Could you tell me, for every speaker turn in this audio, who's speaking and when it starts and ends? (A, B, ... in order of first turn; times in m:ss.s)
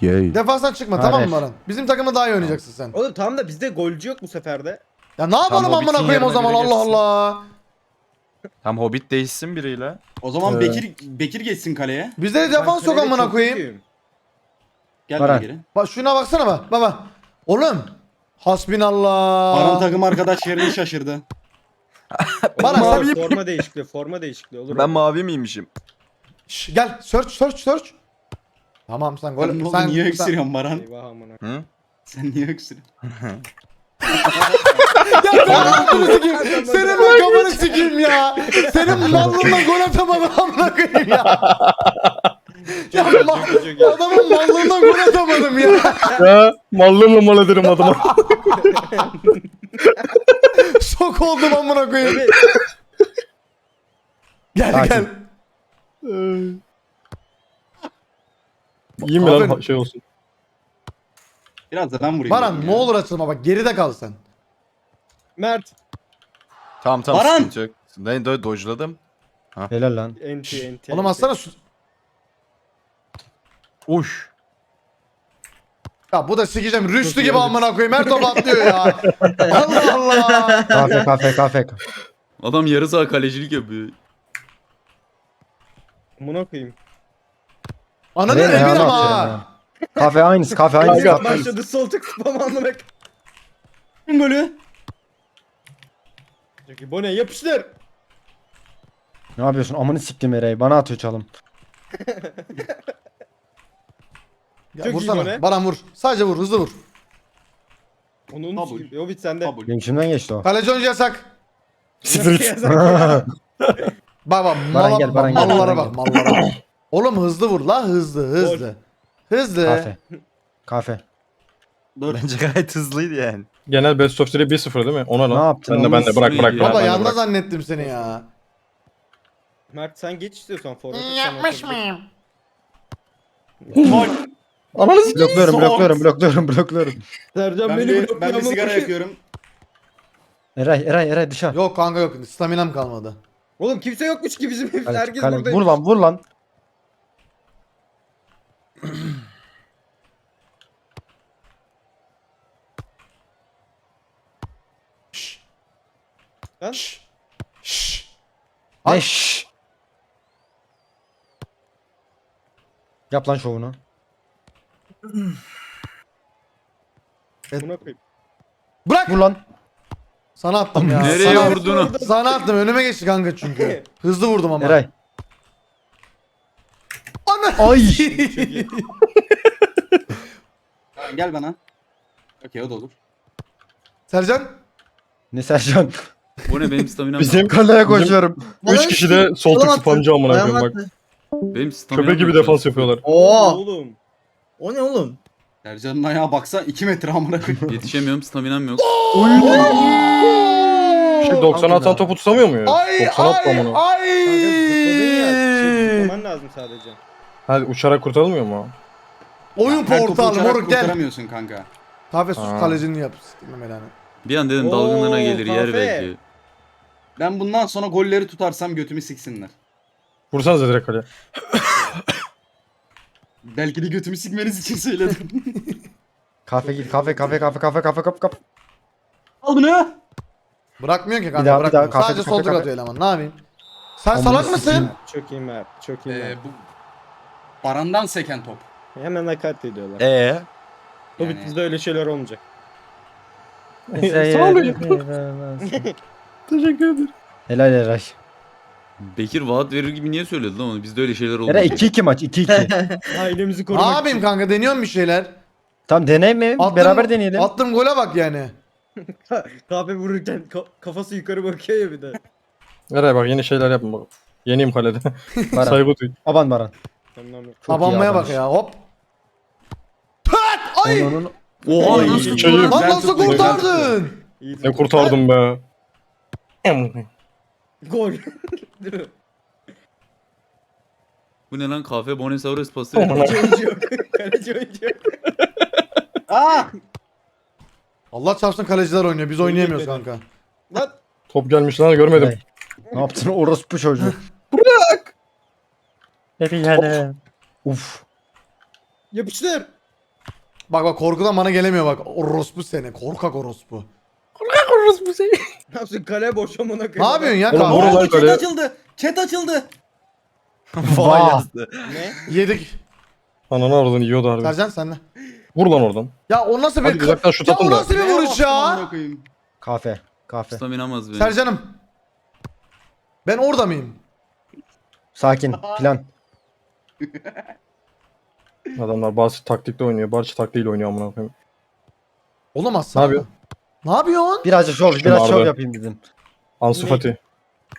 0:00.3-0:03.0 A
0:01.0-0:01.5 B
0:02.9-0:04.8 C
0:05.2-0:07.5 A
0:05.5-0:07.0 D
0:08.6-0:10.0 D
0:10.2-0:12.2 E
0:10.4-0:10.8 F
0:12.2-0:13.7 A
0:12.5-0:13.8 C
0:15.1-0:15.6 E
0:15.2-0:15.5 B
0:15.8-0:20.0 A
0:19.5-0:21.2 E
0:22.1-0:23.5 D
0:22.6-0:25.0 C
0:22.6-0:23.1 A
0:24.7-0:25.7 D
0:26.5-0:28.0 A
0:28.9-0:30.3 A
0:29.4-0:30.9 E
0:30.8-0:31.4 C
0:31.4-0:31.7 D
0:32.1-0:32.8 E
0:33.0-0:33.4 D
0:34.1-0:41.5 A
0:34.4-0:34.9 E
0:35.4-0:37.6 C
0:36.9-0:37.4 F
0:38.5-0:39.3 C
0:38.9-0:39.5 B
0:41.2-0:42.3 F
0:42.8-0:44.2 C
0:42.9-0:46.2 A
0:45.9-0:46.2 C
0:46.1-0:48.5 F
0:47.8-0:48.5 A
0:48.6-0:49.4 C
0:49.9-0:50.6 F
0:50.6-0:52.3 A
0:52.0-0:52.4 C
0:52.4-0:52.7 F
0:54.6-0:55.2 A
0:54.7-0:55.1 B
0:56.0-0:56.6 F
0:59.0-0:59.6 A
0:59.0-1:00.0 F
1:01.7-1:02.9 E
1:02.3-1:04.2 A
1:05.4-1:05.7 C
1:06.8-1:09.0 D
1:07.1-1:07.5 E
1:09.7-1:10.2 B
1:10.2-1:11.3 C
1:10.8-1:11.6 A
1:13.9-1:14.3 D
1:16.1-1:21.0 A
1:17.0-1:18.7 C
1:19.3-1:21.1 G
1:20.7-1:21.8 B
1:22.4-1:23.9 H
1:26.2-1:26.8 C
1:28.2-1:29.4 A
1:28.3-1:29.4 B
1:28.3-1:29.3 C
1:30.0-1:32.9 C
1:30.0-1:31.5 B
1:30.8-1:31.5 F
1:34.1-1:34.6 E
1:36.7-1:37.7 C
1:39.4-1:41.3 B
1:42.0-1:42.7 C
1:44.7-1:46.8 A
1:44.8-1:45.4 C
1:48.3-1:49.6 C
1:48.6-1:49.7 E
1:49.7-1:50.5 B
1:50.4-1:51.3 A
1:52.1-1:52.5 F
1:52.1-1:53.8 C
1:52.6-1:53.3 B
1:54.2-1:58.8 A
1:54.7-1:56.0 B
1:55.3-1:55.7 E
1:56.2-1:56.6 F
1:58.4-1:58.7 C
1:59.3-1:59.9 A
1:59.6-2:00.0 B
2:00.7-2:01.0 B
2:02.0-2:02.2 E
2:02.1-2:03.5 D
2:03.7-2:07.2 F
2:05.3-2:06.4 B
2:06.2-2:07.1 H
2:06.5-2:08.3 A
2:07.8-2:08.2 C
2:09.7-2:11.9 C
2:11.2-2:11.8 A
2:13.6-2:14.0 C
2:13.7-2:14.1 F
2:13.8-2:14.3 E
2:14.8-2:15.8 F
2:15.1-2:16.1 E
2:15.1-2:17.0 B
2:17.4-2:19.0 C
2:17.6-2:19.2 E
2:20.6-2:21.6 B
2:21.5-2:23.2 A
2:23.6-2:25.8 C
2:24.9-2:26.2 B
2:35.1-2:35.4 A
2:36.6-2:36.9 C
2:36.7-2:37.0 A
2:37.6-2:38.1 A
2:38.9-2:39.5 B
2:43.1-2:43.8 B
2:45.1-2:45.3 G
2:47.5-2:47.8 A
2:47.6-2:48.0 C
2:48.8-2:49.3 A
2:49.1-2:49.4 B
2:50.4-2:54.8 A
2:50.7-2:51.2 B
2:51.0-2:52.0 H
2:51.1-2:52.4 C
2:53.4-2:53.9 C
2:54.6-2:54.9 B
2:57.3-2:58.9 A
2:57.6-2:58.0 B
2:57.8-2:58.7 C
3:01.0-3:01.6 E
3:02.4-3:03.0 E
3:04.1-3:04.5 A
3:05.3-3:06.0 B
3:06.5-3:07.5 H
3:07.2-3:10.8 F
3:07.5-3:08.5 B
3:08.6-3:10.9 G
3:11.5-3:13.0 H
3:11.9-3:13.1 F
3:13.0-3:13.6 G
3:13.1-3:14.0 C
3:14.6-3:15.2 G
3:15.6-3:17.7 E
3:17.7-3:18.9 H
3:18.8-3:22.0 A
3:19.1-3:20.0 B
3:19.4-3:19.8 G
3:21.2-3:23.8 F
3:22.6-3:26.2 A
3:24.2-3:27.0 C
3:27.5-3:28.7 F
3:29.6-3:31.0 A
3:29.7-3:31.7 E
3:32.1-3:33.9 A
3:32.4-3:32.8 F
3:34.2-3:36.2 H
3:34.6-3:36.1 C
3:37.2-3:39.5 E
3:40.3-3:41.1 F
3:43.4-3:45.6 E
3:46.5-3:48.4 B
3:46.6-3:47.5 C
3:49.4-3:50.0 E
3:50.8-3:53.4 A
3:51.4-3:52.7 B
3:54.0-3:54.9 A
3:54.1-3:54.9 B
3:54.3-3:56.4 C
3:56.1-3:56.6 E
3:57.6-3:58.7 E
3:59.0-4:00.1 C
4:00.0-4:00.5 D
4:01.2-4:01.6 E
4:01.2-4:02.4 C
4:03.9-4:05.0 F
4:04.0-4:05.9 B
4:05.6-4:05.9 C
4:06.5-4:07.1 F
4:07.5-4:08.2 B
4:09.0-4:11.9 H
4:11.5-4:12.7 B
4:12.5-4:13.0 G
4:13.1-4:14.3 C
4:13.7-4:15.3 A
4:15.9-4:17.5 B
4:16.6-4:18.6 A
4:19.1-4:22.2 C
4:22.9-4:26.2 F
4:25.5-4:26.7 B
4:27.2-4:27.6 C
4:27.6-4:28.4 B
4:27.7-4:28.8 A
4:30.3-4:31.3 A
4:30.8-4:31.3 B
4:31.6-4:32.7 H
4:31.8-4:34.2 A
4:31.8-4:32.7 C
4:31.9-4:34.0 E
4:32.0-4:33.6 F
4:34.3-4:35.2 C
4:34.6-4:35.6 F
4:36.6-4:37.1 F
4:37.9-4:39.1 C
4:41.5-4:43.4 H
4:43.0-4:43.6 F
4:43.2-4:45.2 C
4:46.3-4:46.7 E
4:48.1-4:50.2 A
4:49.4-4:50.1 C
4:50.7-4:51.0 C
4:51.3-4:52.4 F
4:52.1-4:52.4 B
4:52.9-4:54.2 B
4:54.5-4:55.1 F
4:56.4-4:58.0 B
4:59.1-4:59.7 C
5:00.7-5:03.9 A
5:04.4-5:05.4 F
5:05.7-5:07.6 C
5:07.0-5:08.1 A
5:07.5-5:07.9 B
5:07.5-5:08.5 F
5:07.6-5:09.7 E
5:10.8-5:12.1 D
5:10.8-5:11.5 B
5:11.8-5:12.2 C
5:12.3-5:12.8 A
5:13.5-5:14.6 F
5:14.4-5:15.0 A
5:15.6-5:16.1 F
5:16.3-5:18.9 A
5:16.8-5:17.9 F
5:17.9-5:19.3 E
5:19.6-5:20.6 B
5:20.5-5:21.4 H
5:21.2-5:21.8 A
5:23.2-5:24.0 A
5:25.2-5:26.1 B
5:25.5-5:25.9 E
5:27.0-5:27.5 E
5:28.8-5:31.3 F
5:32.6-5:33.3 A
5:33.0-5:33.2 F
5:33.8-5:34.5 A
5:34.4-5:36.0 B
5:34.9-5:35.5 F
5:36.6-5:37.2 F
5:36.7-5:37.0 C